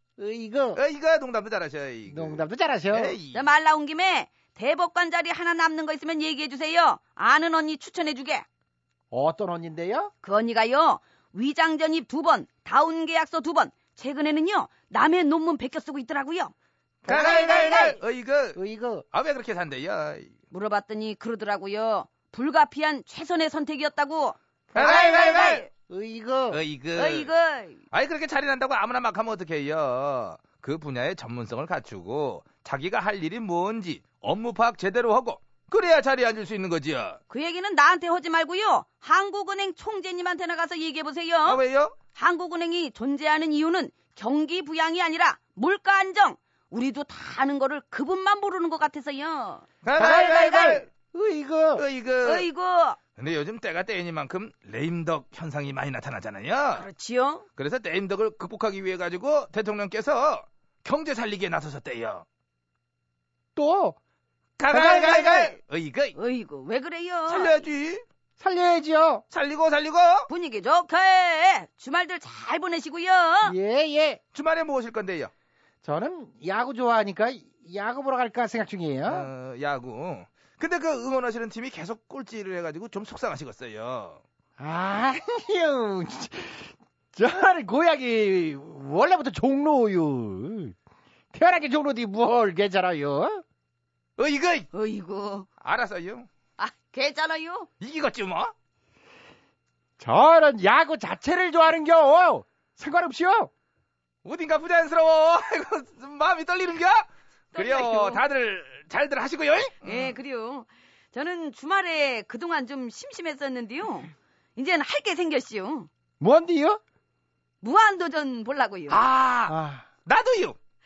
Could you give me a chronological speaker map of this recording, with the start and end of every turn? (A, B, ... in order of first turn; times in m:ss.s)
0:00.2-0:00.8 A
0:00.7-0:03.4 B
0:02.1-0:03.2 A
0:03.3-0:08.4 C
0:09.1-0:10.1 A
0:10.2-0:16.5 C
0:17.1-0:17.3 A
0:17.1-0:18.0 C
0:17.1-0:18.6 B
0:18.5-0:19.0 A
0:19.1-0:20.3 B
0:20.5-0:25.6 C
0:24.7-0:25.6 B
0:24.7-0:26.6 A
0:26.5-0:27.3 B
0:26.9-0:27.8 C
0:27.9-0:37.2 B
0:37.3-0:41.6 C
0:41.4-0:41.9 B
0:42.1-0:50.8 C
0:49.8-0:50.9 B
0:50.0-0:51.8 A
0:51.8-0:52.5 B
0:52.2-0:53.0 C
0:53.2-0:56.8 B
0:56.7-0:57.4 C
0:57.6-1:02.2 B
1:03.6-1:04.0 A
1:04.6-1:06.2 B
1:04.7-1:05.4 A
1:04.7-1:05.5 C
1:06.1-1:07.6 C
1:07.3-1:08.0 B
1:08.4-1:09.2 A
1:09.3-1:10.3 B
1:10.3-1:13.6 C
1:13.4-1:14.2 A
1:14.3-1:15.3 B
1:15.8-1:19.3 A
1:19.1-1:24.2 B
1:24.6-1:30.8 A
1:31.3-1:33.4 A
1:34.2-1:34.7 B
1:34.7-1:35.5 C
1:35.6-1:36.3 B
1:36.6-1:37.7 C
1:37.8-1:38.5 B
1:40.0-1:43.5 A
1:44.2-1:50.1 B
1:47.5-1:48.2 C
1:49.8-1:55.9 C
1:56.2-1:56.8 A
1:57.6-1:59.0 C
1:58.9-1:59.5 B
1:59.4-1:59.9 A
2:00.0-2:00.6 B